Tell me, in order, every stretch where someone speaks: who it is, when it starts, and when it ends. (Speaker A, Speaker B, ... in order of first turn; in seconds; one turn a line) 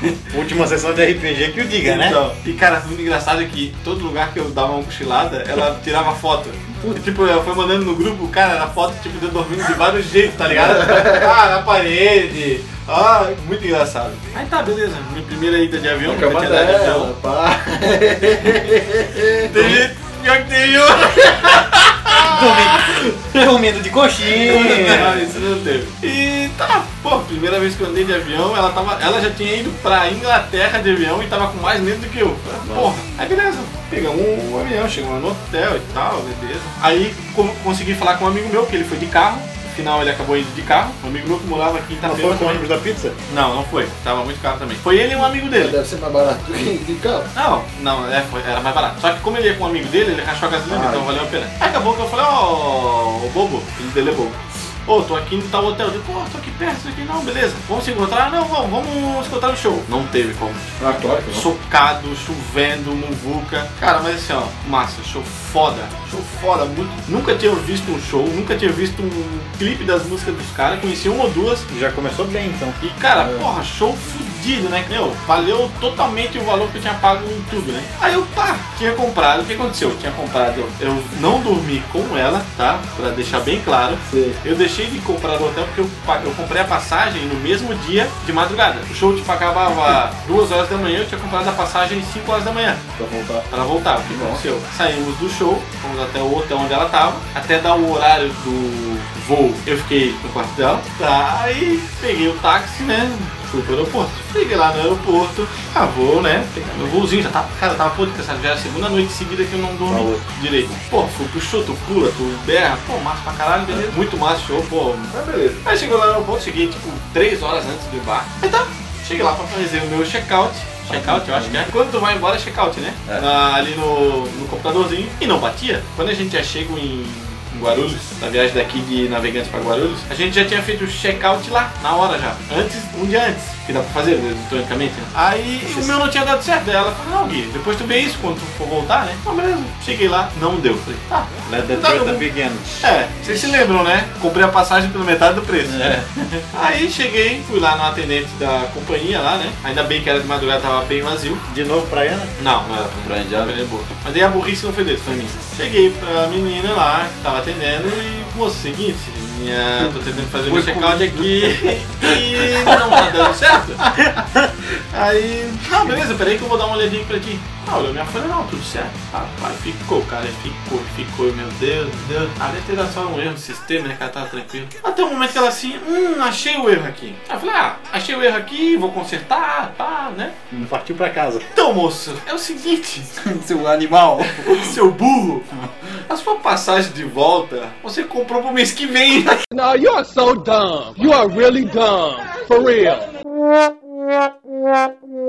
Speaker A: 0.3-2.2
Speaker B: 1.8-17.1
Speaker C: 6.7-7.0
Speaker C: 10.5-11.3
Speaker C: 16.0-19.9
Speaker B: 19.5-22.9
Speaker C: 21.2-21.6
Speaker A: 22.1-25.3
Speaker B: 24.3-42.6
Speaker C: 24.8-25.2
Speaker C: 32.6-32.9
Speaker A: 42.0-43.2
Speaker B: 43.3-45.8
Speaker C: 45.4-47.3
Speaker B: 47.3-60.7
Speaker A: 50.7-51.0
Speaker C: 60.8-61.5
Speaker B: 61.3-71.7
Speaker A: 71.7-72.8
Speaker B: 72.8-92.9
Speaker C: 73.2-73.5
Speaker C: 84.1-84.4
Speaker C: 93.0-93.5
Speaker B: 93.5-142.2
Speaker C: 94.1-94.4
Speaker A: 109.9-110.2
Speaker C: 120.9-121.7
Speaker A: 141.5-142.8
Speaker B: 142.8-145.9
Speaker C: 145.6-146.4
Speaker B: 146.5-151.4
Speaker A: 151.5-152.3
Speaker B: 152.4-163.8
Speaker C: 153.0-153.5
Speaker C: 160.4-162.8
Speaker B: 164.9-180.3
Speaker A: 180.6-181.5
Speaker B: 181.5-183.1
Speaker C: 183.2-184.7
Speaker B: 184.3-185.5
Speaker B: 186.1-189.4
Speaker D: 189.5-193.1